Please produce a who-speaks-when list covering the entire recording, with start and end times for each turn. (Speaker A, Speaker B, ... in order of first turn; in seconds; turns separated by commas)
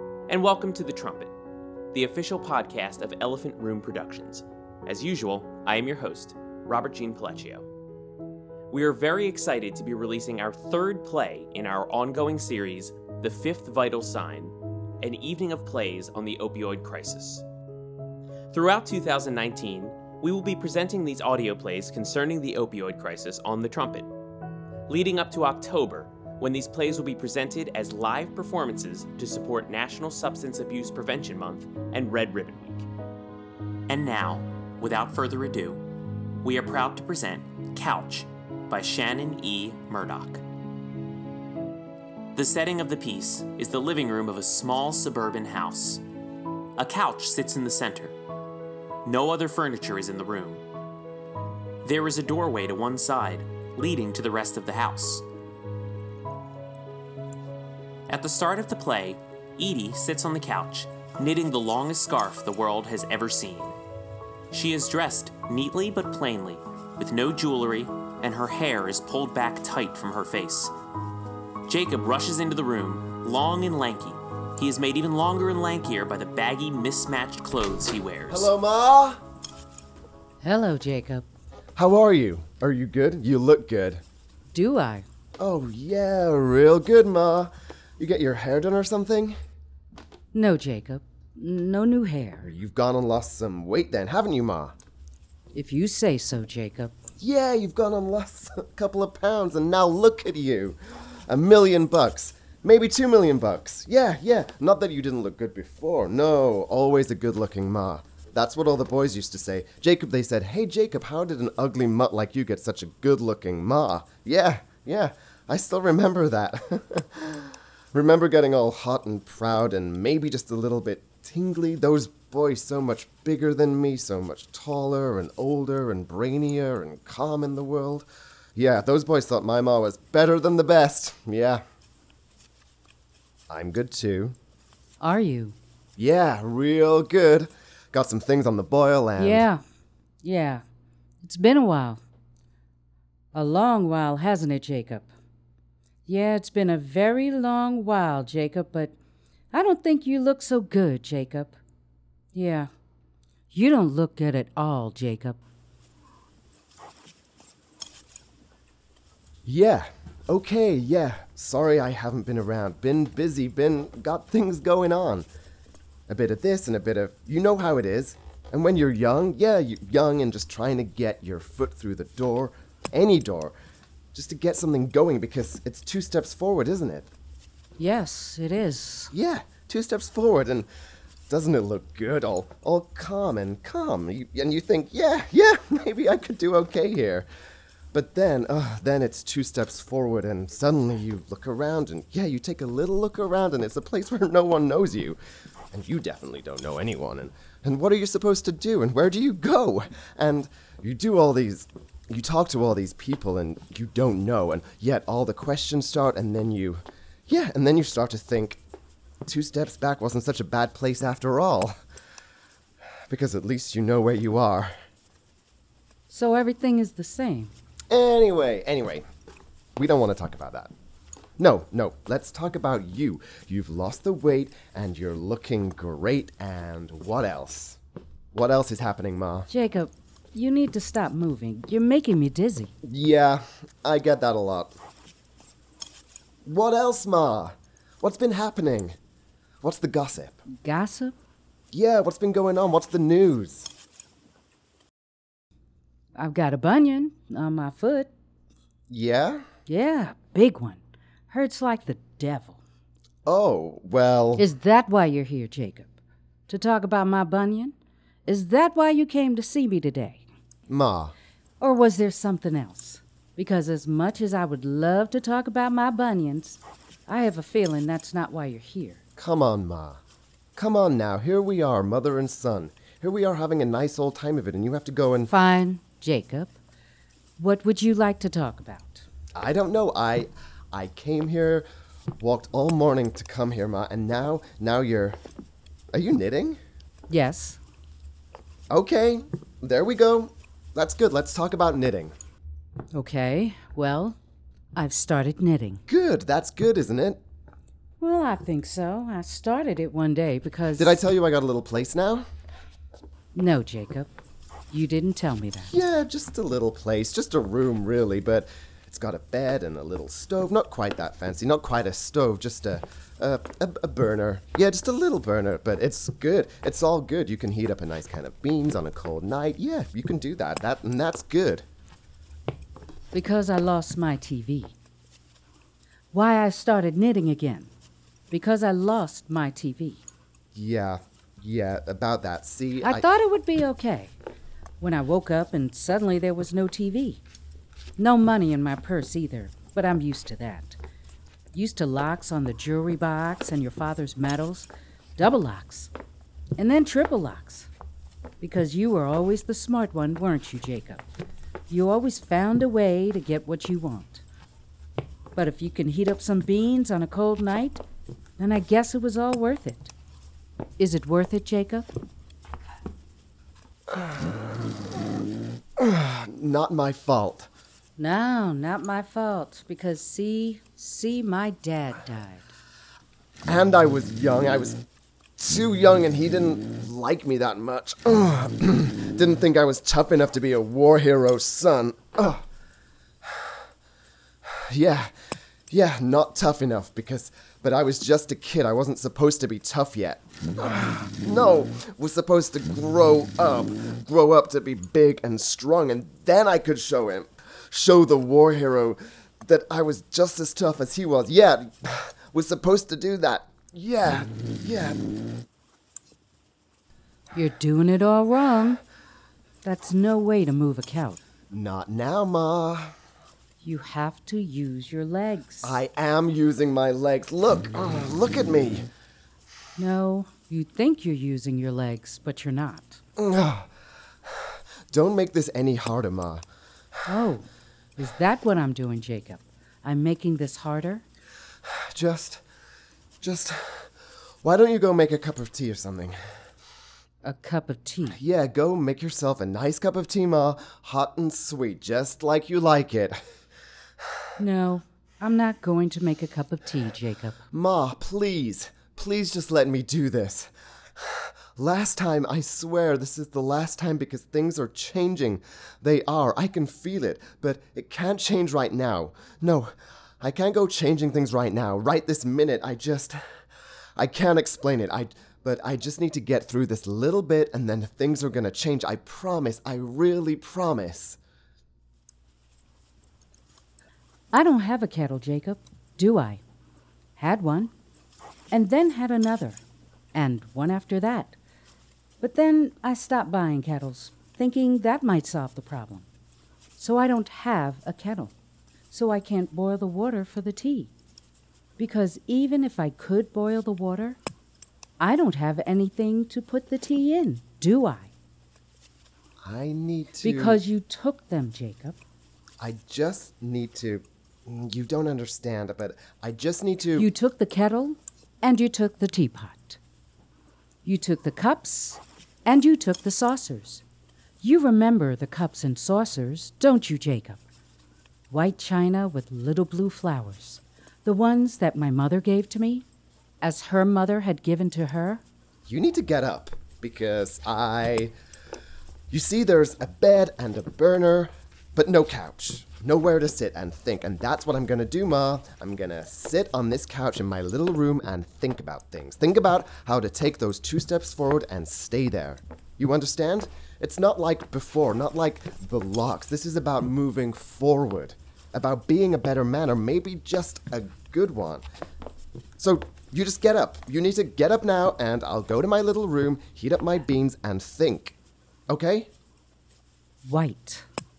Speaker A: 0.3-1.3, Speaker A: 1.9-7.7, Speaker A: 8.7-17.4, Speaker A: 18.5-24.1, Speaker A: 24.9-32.9, Speaker A: 33.9-35.8, Speaker A: 36.4-40.4, Speaker A: 42.3-46.0, Speaker A: 46.8-48.1, Speaker A: 49.0-50.6, Speaker A: 51.8-55.2, Speaker A: 58.1-63.8, Speaker A: 64.5-70.7, Speaker A: 71.7-78.5, Speaker B: 78.3-79.2, Speaker C: 80.4-81.2, Speaker B: 81.8-84.0, Speaker C: 84.5-85.0, Speaker B: 85.4-89.3, Speaker C: 90.3-92.5, Speaker B: 92.4-94.7, Speaker C: 95.5-96.9, Speaker B: 97.2-131.6, Speaker B: 133.5-134.3, Speaker C: 135.0-135.5, Speaker B: 136.0-139.5, Speaker C: 139.2-139.6, Speaker C: 140.2-140.6, Speaker C: 141.2-142.0, Speaker C: 143.3-145.1, Speaker C: 146.1-148.9, Speaker C: 149.5-151.6, Speaker C: 152.3-152.7, Speaker C: 153.5-155.4, Speaker B: 159.4-165.3, Speaker B: 166.1-173.5, Speaker B: 174.1-177.1, Speaker C: 177.8-179.1, Speaker B: 179.1-180.7, Speaker B: 181.3-187.2, Speaker B: 187.9-195.2, Speaker B: 195.7-208.6, Speaker B: 209.2-211.7, Speaker B: 213.1-214.7, Speaker C: 216.1-217.5, Speaker B: 217.9-219.0, Speaker B: 219.8-220.7, Speaker B: 221.4-227.8, Speaker B: 228.3-229.5, Speaker C: 229.5-232.7, Speaker B: 232.8-234.7, Speaker B: 236.4-238.9, Speaker B: 239.6-240.4, Speaker C: 240.5-241.2, Speaker B: 241.7-243.7, Speaker C: 246.2-248.1, Speaker B: 248.9-249.4, Speaker C: 249.7-252.6, Speaker B: 253.2-254.4, Speaker C: 254.4-255.9, Speaker C: 256.5-257.7, Speaker C: 258.2-260.2, Speaker B: 260.7-261.1, Speaker C: 261.6-269.0, Speaker B: 269.2-270.0, Speaker B: 270.6-275.3, Speaker C: 275.3-276.6, Speaker C: 277.4-279.1, Speaker B: 279.3-281.6, Speaker B: 282.2-285.2, Speaker B: 285.9-286.6, Speaker C: 287.1-287.6, Speaker B: 288.7-292.1, Speaker C: 292.9-294.2, Speaker C: 294.7-295.8, Speaker B: 295.9-297.2, Speaker C: 298.0-301.0, Speaker B: 300.8-302.2, Speaker C: 303.3-304.1, Speaker C: 304.7-305.7, Speaker B: 305.7-321.6, Speaker C: 323.1-324.7, Speaker C: 326.1-327.7, Speaker C: 328.3-330.0, Speaker B: 330.5-333.1, Speaker C: 332.8-334.1, Speaker C: 334.8-337.2, Speaker C: 338.0-340.8, Speaker C: 341.5-345.9, Speaker C: 346.6-347.7, Speaker C: 348.4-351.0, Speaker C: 351.7-354.2, Speaker C: 355.3-357.8, Speaker C: 358.4-359.9, Speaker C: 360.8-361.9, Speaker B: 363.9-364.8, Speaker B: 365.8-367.5, Speaker C: 368.0-372.5, Speaker B: 373.5-374.8, Speaker B: 375.4-382.4, Speaker B: 383.2-383.5, Speaker B: 384.4-385.1, Speaker B: 385.7-405.0, Speaker C: 407.3-408.8, Speaker C: 409.6-411.2, Speaker B: 411.5-412.9, Speaker C: 413.6-415.8, Speaker B: 415.6-418.9, Speaker C: 419.8-423.0, Speaker B: 423.2-423.7, Speaker B: 424.9-426.4, Speaker C: 427.1-427.4, Speaker C: 428.0-431.0, Speaker B: 431.7-432.4, Speaker B: 433.2-433.9, Speaker B: 434.4-436.2, Speaker C: 437.2-438.2, Speaker B: 438.1-443.2, Speaker C: 444.4-447.4, Speaker B: 447.5-463.2, Speaker B: 464.0-471.2, Speaker C: 474.3-476.4, Speaker C: 477.2-477.7, Speaker C: 478.5-479.6, Speaker C: 480.1-481.4, Speaker C: 482.2-486.1, Speaker C: 486.8-488.3, Speaker C: 488.9-490.9, Speaker C: 491.8-494.2, Speaker C: 495.0-498.1, Speaker B: 499.4-500.6, Speaker C: 500.2-502.0, Speaker B: 502.6-507.1, Speaker C: 507.0-509.8, Speaker C: 510.8-513.8, Speaker C: 514.4-517.4, Speaker C: 518.3-522.9, Speaker C: 523.4-525.2, Speaker B: 525.7-528.1, Speaker B: 529.1-551.6, Speaker B: 552.6-558.1, Speaker B: 558.7-559.1, Speaker C: 560.2-560.9